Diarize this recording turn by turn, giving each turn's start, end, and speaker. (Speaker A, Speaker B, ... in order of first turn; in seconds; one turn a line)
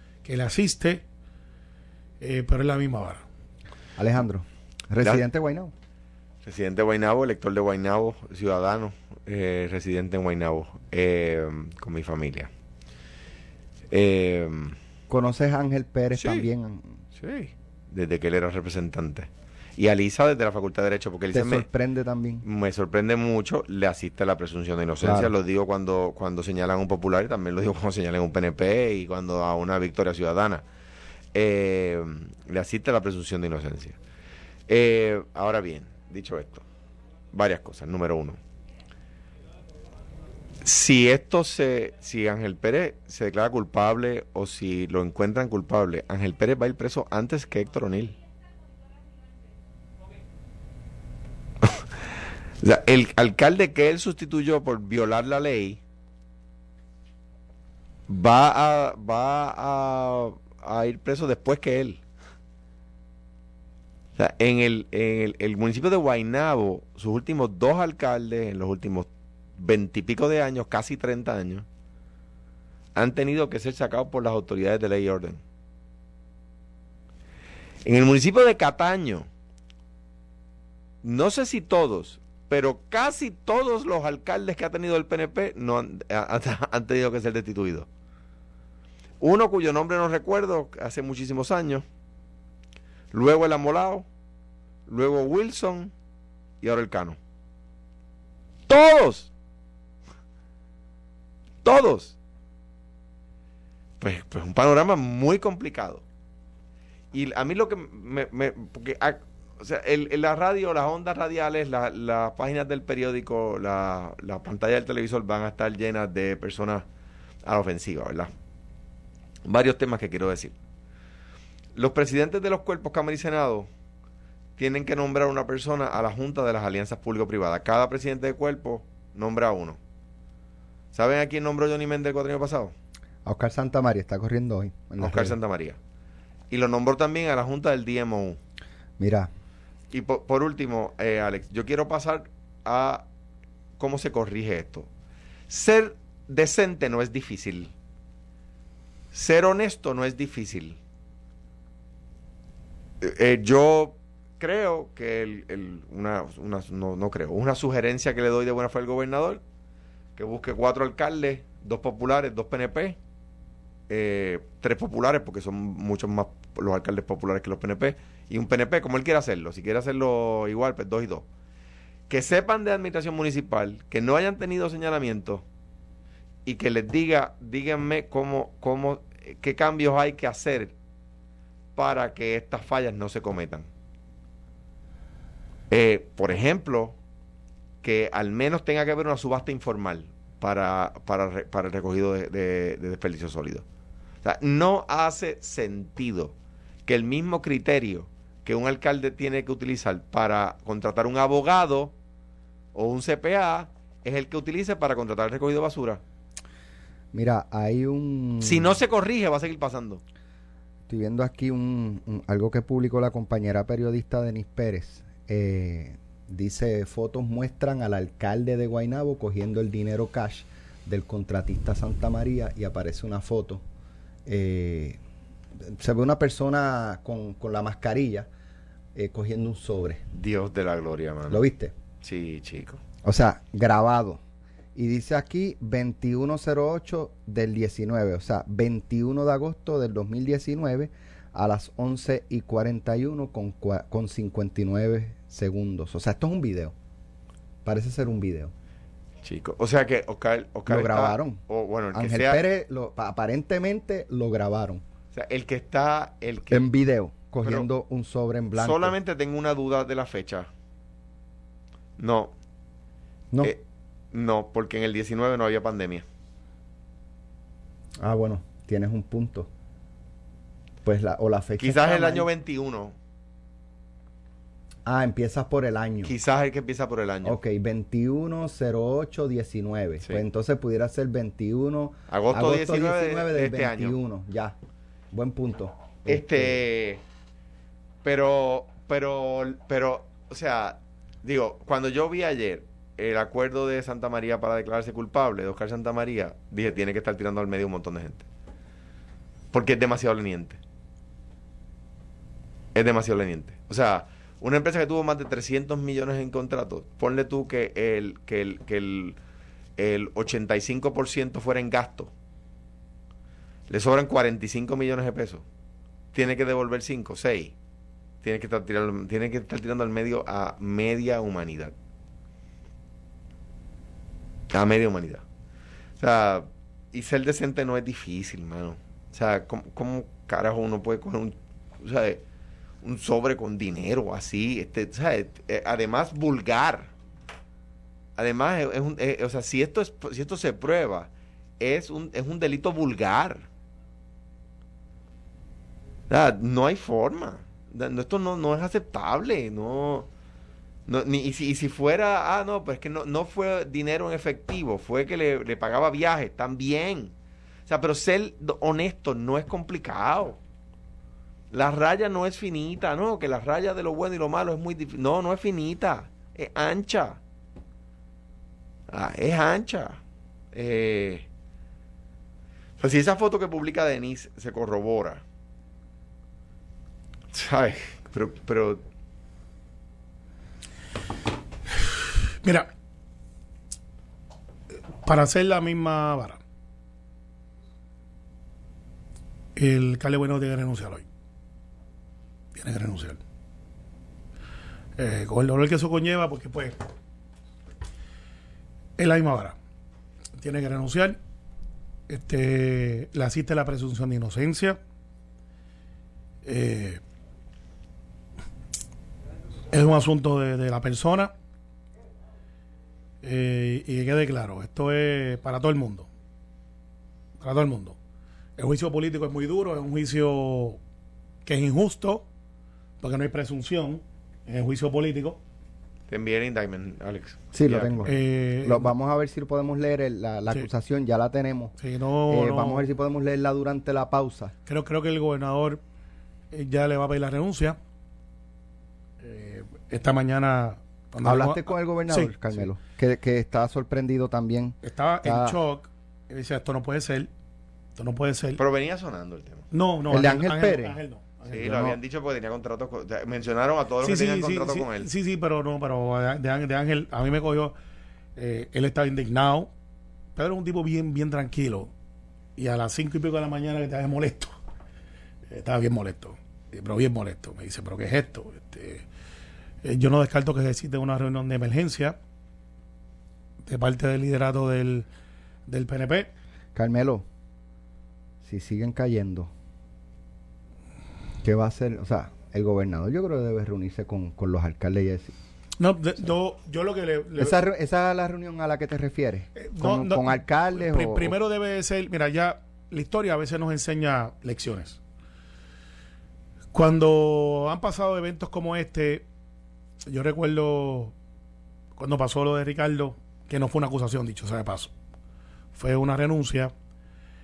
Speaker A: 0.2-1.1
Speaker A: 2.2-3.2
Speaker B: 4.0-5.7
Speaker C: 6.4-12.5
Speaker C: 13.9-14.8
Speaker B: 15.1-17.0
Speaker C: 16.2-16.5
Speaker C: 17.2-21.7
Speaker B: 21.3-22.4
Speaker C: 22.4-30.6
Speaker B: 25.0-25.3
Speaker C: 31.3-34.0
Speaker C: 34.7-36.6
Speaker C: 37.3-38.4
Speaker C: 40.6-48.2
Speaker C: 52.6-55.8
Speaker C: 58.1-62.0
Speaker C: 64.2-71.7
Speaker C: 73.0-75.4
Speaker C: 77.8-79.3
Speaker C: 81.0-87.9
Speaker C: 89.2-91.8
Speaker C: 93.1-94.1
Speaker C: 94.9-95.9
Speaker C: 96.6-97.2
Speaker C: 98.7-99.3
Speaker C: 101.6-102.2
Speaker C: 104.0-106.0
Speaker C: 107.1-116.8
Speaker C: 117.5-118.3
Speaker C: 119.5-120.5
Speaker C: 121.8-123.7
Speaker C: 124.6-129.8
Speaker C: 130.9-132.7
Speaker B: 133.2-135.4
Speaker C: 135.0-135.8
Speaker C: 136.5-138.4
Speaker B: 139.0-139.3
Speaker C: 139.9-143.1
Speaker C: 143.8-144.9
Speaker C: 145.5-147.7
Speaker C: 149.1-150.8
Speaker C: 153.0-159.4
Speaker C: 160.2-163.0
Speaker C: 163.9-171.3
Speaker C: 172.1-175.4
Speaker C: 176.4-180.7
Speaker C: 181.8-183.7
Speaker C: 185.7-187.0
Speaker C: 187.8-193.7
Speaker C: 194.2-196.3
Speaker C: 196.9-201.9
Speaker C: 202.7-206.0
Speaker B: 207.1-208.8
Speaker C: 208.4-210.0
Speaker B: 210.9-223.6
Speaker B: 224.3-225.0
Speaker B: 225.6-228.3
Speaker B: 228.9-230.0
Speaker C: 230.1-231.4
Speaker B: 231.3-231.8
Speaker C: 232.0-232.8
Speaker B: 233.0-234.2
Speaker B: 234.8-246.7
Speaker B: 247.7-248.5
Speaker C: 249.2-252.4
Speaker B: 250.7-251.4
Speaker B: 251.9-254.8
Speaker C: 255.1-256.7
Speaker B: 256.5-258.9
Speaker C: 258.6-260.5
Speaker C: 262.0-262.3
Speaker C: 264.1-266.1
Speaker B: 268.0-269.5
Speaker B: 270.8-272.3
Speaker C: 271.6-273.0
Speaker B: 274.9-276.1
Speaker C: 276.1-277.4
Speaker B: 277.2-284.6
Speaker C: 282.1-284.0
Speaker B: 285.1-286.6
Speaker C: 286.1-287.0
Speaker C: 288.0-298.3
Speaker C: 299.5-300.6
Speaker C: 302.8-309.2
Speaker C: 309.8-312.1
Speaker C: 313.7-315.4
Speaker C: 316.1-317.5
Speaker C: 318.2-321.7
Speaker C: 324.5-325.2
Speaker C: 326.0-332.2
Speaker C: 332.8-336.9
Speaker C: 338.2-343.4
Speaker C: 346.1-350.1
Speaker C: 350.9-357.1
Speaker C: 357.7-360.4
Speaker C: 361.5-367.2
Speaker C: 368.9-370.0
Speaker C: 370.5-371.3
Speaker C: 372.8-375.2
Speaker C: 377.3-378.8
Speaker A: 381.9-382.7
Speaker A: 385.0-386.4
Speaker A: 389.6-391.1
Speaker A: 392.6-393.2
Speaker A: 395.0-396.8
Speaker A: 399.0-399.6
Speaker A: 400.4-401.2
Speaker A: 402.1-404.8
Speaker A: 406.4-407.0
Speaker A: 409.7-411.3
Speaker A: 413.2-416.1
Speaker A: 417.4-418.0
Speaker A: 418.6-420.8
Speaker A: 421.5-422.3
Speaker A: 423.0-425.4
Speaker C: 426.1-428.1
Speaker B: 427.5-431.8
Speaker A: 428.1-428.9
Speaker A: 431.8-432.9
Speaker B: 432.3-434.5
Speaker A: 434.7-435.8
Speaker A: 436.5-437.8
Speaker A: 439.2-442.7
Speaker B: 441.2-445.6
Speaker A: 444.8-447.3
Speaker A: 448.0-448.6
Speaker C: 448.6-449.7
Speaker A: 449.7-451.6
Speaker B: 450.1-451.0
Speaker C: 451.5-455.1
Speaker B: 451.5-452.0
Speaker A: 454.0-457.8
Speaker A: 458.4-459.7
Speaker A: 460.4-461.9
Speaker A: 462.6-464.5
Speaker A: 465.5-469.1
Speaker A: 469.8-472.2
Speaker A: 473.6-475.1
Speaker A: 475.7-476.3
Speaker B: 476.8-477.3
Speaker B: 478.4-479.5
Speaker B: 481.4-485.4
Speaker A: 485.8-487.6
Speaker B: 487.4-491.4
Speaker A: 489.6-495.0
Speaker A: 496.7-499.3
Speaker A: 500.1-501.1
Speaker A: 502.0-504.9
Speaker A: 505.8-506.7